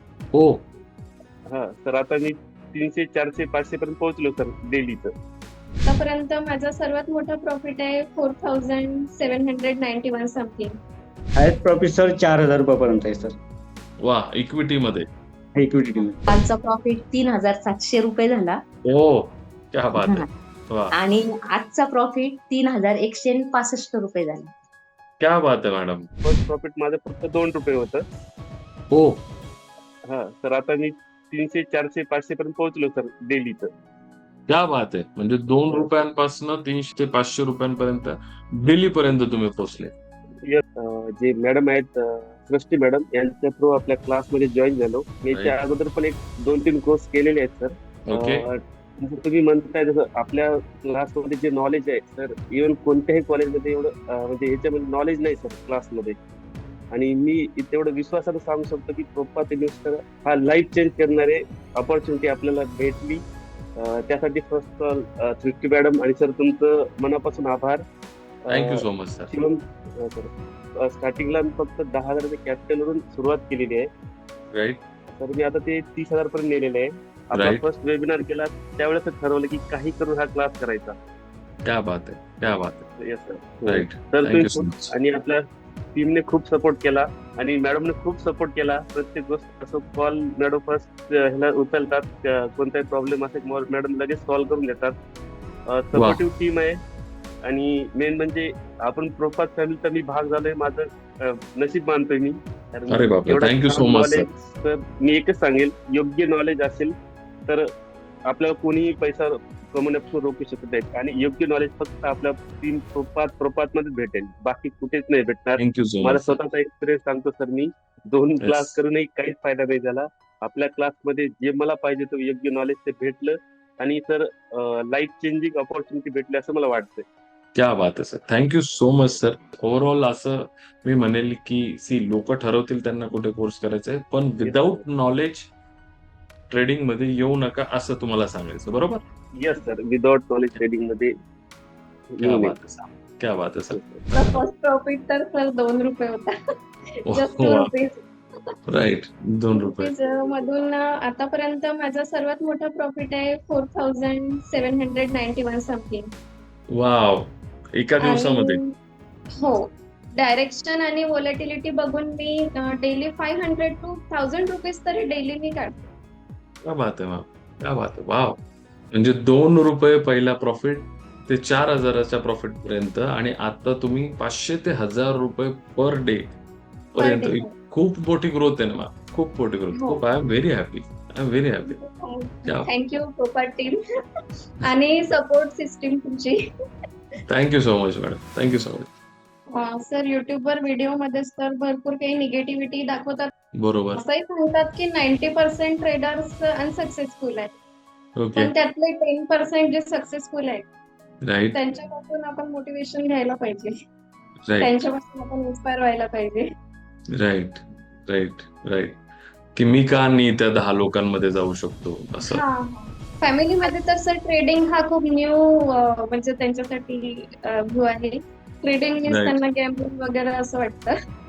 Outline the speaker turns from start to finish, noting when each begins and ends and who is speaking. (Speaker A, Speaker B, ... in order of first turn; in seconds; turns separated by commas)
Speaker A: 0.3-0.6, Speaker B: 1.5-5.1, Speaker C: 5.9-10.8, Speaker D: 11.4-13.4, Speaker A: 14.0-15.1, Speaker D: 15.6-16.4, Speaker E: 16.3-18.6, Speaker A: 18.8-20.9, Speaker E: 20.0-20.3, Speaker E: 21.0-24.5, Speaker A: 25.2-26.1, Speaker B: 26.2-28.0, Speaker A: 28.9-29.2, Speaker B: 30.1-33.7, Speaker A: 34.5-39.9, Speaker B: 40.4-56.2, Speaker A: 45.3-45.6, Speaker A: 48.0-48.5, Speaker B: 56.9-63.2, Speaker B: 63.8-67.8, Speaker A: 68.5-69.3, Speaker B: 68.5-70.3, Speaker B: 70.8-73.9, Speaker A: 74.5-74.8, Speaker B: 75.1-81.0, Speaker A: 77.3-77.7, Speaker A: 81.6-82.9, Speaker B: 83.0-85.4, Speaker A: 83.7-84.9, Speaker B: 86.0-95.0, Speaker B: 95.7-96.8, Speaker A: 96.0-96.2, Speaker B: 97.5-106.9, Speaker A: 102.9-104.3, Speaker B: 108.3-127.0, Speaker A: 115.6-116.4, Speaker A: 118.4-118.7, Speaker A: 127.5-135.5, Speaker B: 134.4-134.8, Speaker A: 136.5-139.0, Speaker B: 139.4-141.1, Speaker B: 142.1-142.5, Speaker A: 142.2-144.4, Speaker B: 143.7-144.0, Speaker C: 144.1-146.3, Speaker C: 147.0-148.0, Speaker A: 147.1-147.7, Speaker A: 148.7-149.9, Speaker C: 149.6-156.1, Speaker A: 156.7-158.6, Speaker C: 158.0-158.7, Speaker C: 160.2-165.9, Speaker A: 166.7-168.4, Speaker A: 168.9-176.4, Speaker A: 176.9-181.8, Speaker C: 177.0-177.6, Speaker C: 179.7-180.0, Speaker C: 181.6-183.8, Speaker C: 184.6-186.4, Speaker A: 187.3-188.9, Speaker C: 189.5-193.3, Speaker A: 193.6-194.0, Speaker C: 193.9-197.5, Speaker A: 198.2-198.5, Speaker C: 198.4-200.7, Speaker A: 201.2-201.6, Speaker C: 201.5-203.8, Speaker A: 204.5-204.8, Speaker C: 204.6-206.5, Speaker A: 207.2-209.0, Speaker A: 209.6-212.4, Speaker C: 212.3-220.9, Speaker A: 219.1-219.4